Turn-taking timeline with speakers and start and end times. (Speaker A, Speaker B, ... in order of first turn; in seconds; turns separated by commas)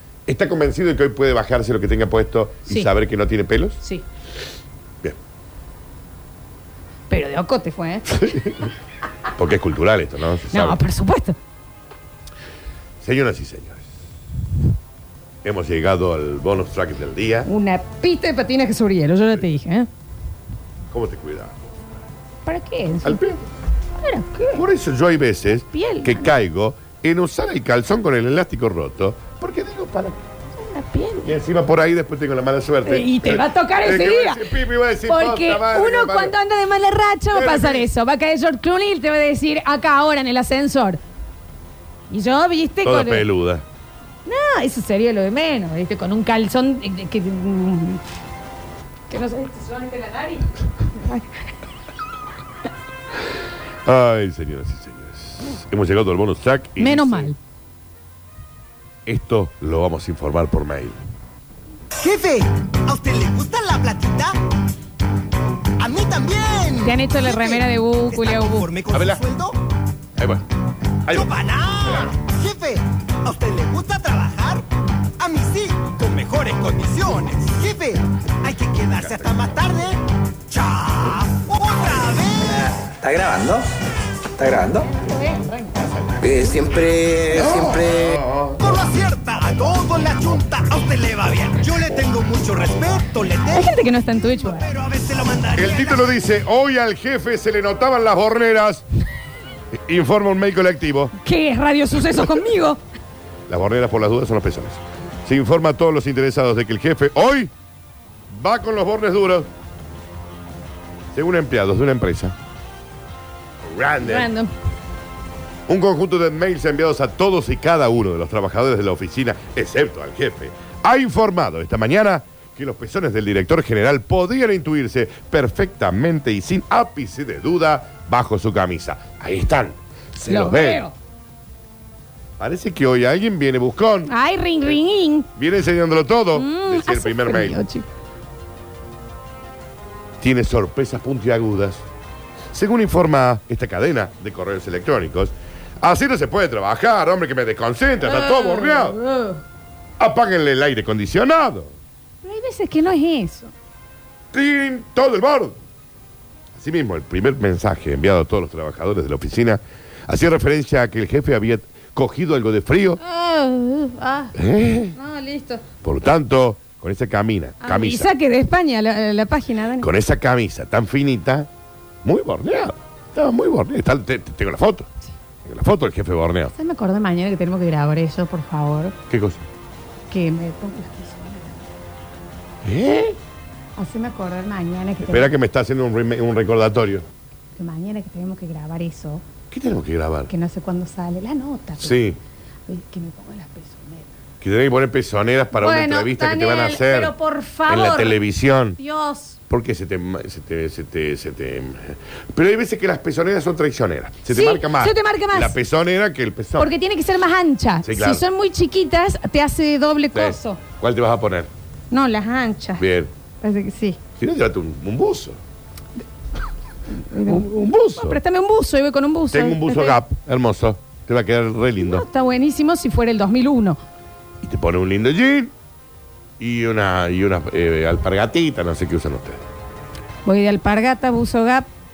Speaker A: 0.3-3.8, Speaker B: 7.1-8.5, Speaker A: 8.1-8.6, Speaker A: 9.3-10.8, Speaker B: 10.5-11.4, Speaker A: 13.0-13.9, Speaker A: 15.4-17.5, Speaker B: 17.4-19.9, Speaker A: 20.9-21.5, Speaker B: 22.4-23.2, Speaker A: 23.0-23.4, Speaker B: 24.0-24.6, Speaker A: 24.5-30.2, Speaker B: 25.7-26.3, Speaker B: 30.6-31.3, Speaker A: 31.2-36.3, Speaker B: 32.8-34.5, Speaker B: 35.0-41.0, Speaker A: 37.3-37.9, Speaker B: 42.1-43.2, Speaker A: 42.8-43.6, Speaker B: 44.2-48.0, Speaker B: 49.1-51.4, Speaker A: 53.8-57.3, Speaker B: 56.8-57.4, Speaker A: 59.0-61.0, Speaker C: 62.0-64.3, Speaker C: 65.8-69.6, Speaker B: 66.8-68.7, Speaker A: 68.9-69.2, Speaker A: 70.2-70.5, Speaker A: 71.0-72.1, Speaker C: 71.1-74.7, Speaker C: 75.2-82.6, Speaker A: 79.0-79.3, Speaker D: 82.4-83.7, Speaker D: 84.4-84.9, Speaker B: 84.9-85.9, Speaker D: 86.2-88.2, Speaker A: 87.3-88.6, Speaker C: 88.6-96.2, Speaker B: 93.5-94.7, Speaker A: 95.5-98.8, Speaker A: 99.7-101.1, Speaker B: 101.2-102.8, Speaker A: 103.5-107.5, Speaker A: 108.3-109.5, Speaker A: 111.1-112.3, Speaker A: 113.6-114.3, Speaker B: 114.0-114.5, Speaker A: 115.7-130.8, Speaker B: 130.2-130.9, Speaker A: 132.4-134.1, Speaker B: 134.1-135.3, Speaker A: 135.3-137.6, Speaker B: 136.3-137.8, Speaker A: 140.2-141.8, Speaker A: 142.5-149.0, Speaker B: 148.0-149.4, Speaker A: 150.0-151.7, Speaker B: 152.2-153.5, Speaker A: 154.3-155.6, Speaker A: 156.5-163.0, Speaker B: 163.0-164.3, Speaker A: 164.3-165.0, Speaker B: 164.9-165.6, Speaker A: 165.8-168.1, Speaker B: 167.6-169.9, Speaker A: 169.8-171.5, Speaker A: 172.0-174.9, Speaker A: 175.4-176.5, Speaker B: 176.5-178.9, Speaker A: 179.1-179.4, Speaker B: 180.1-181.6, Speaker A: 182.6-183.2, Speaker B: 183.8-185.3, Speaker A: 185.0-187.1, Speaker B: 187.6-189.2, Speaker A: 189.5-190.3, Speaker B: 190.3-192.0, Speaker A: 191.8-192.2, Speaker B: 192.7-194.1, Speaker A: 194.4-197.1, Speaker B: 195.5-198.2, Speaker A: 197.7-198.8, Speaker B: 198.8-199.4, Speaker A: 199.5-206.7, Speaker B: 204.3-205.5, Speaker B: 206.6-210.6, Speaker A: 207.8-208.2, Speaker A: 210.1-211.5, Speaker B: 211.9-212.8, Speaker A: 212.8-213.1, Speaker B: 213.4-214.0, Speaker A: 214.2-215.4, Speaker B: 217.0-220.0, Speaker A: 217.2-218.2, Speaker A: 219.3-222.0, Speaker B: 221.8-223.8, Speaker A: 224.4-225.5, Speaker A: 226.4-229.4, Speaker B: 230.2-231.7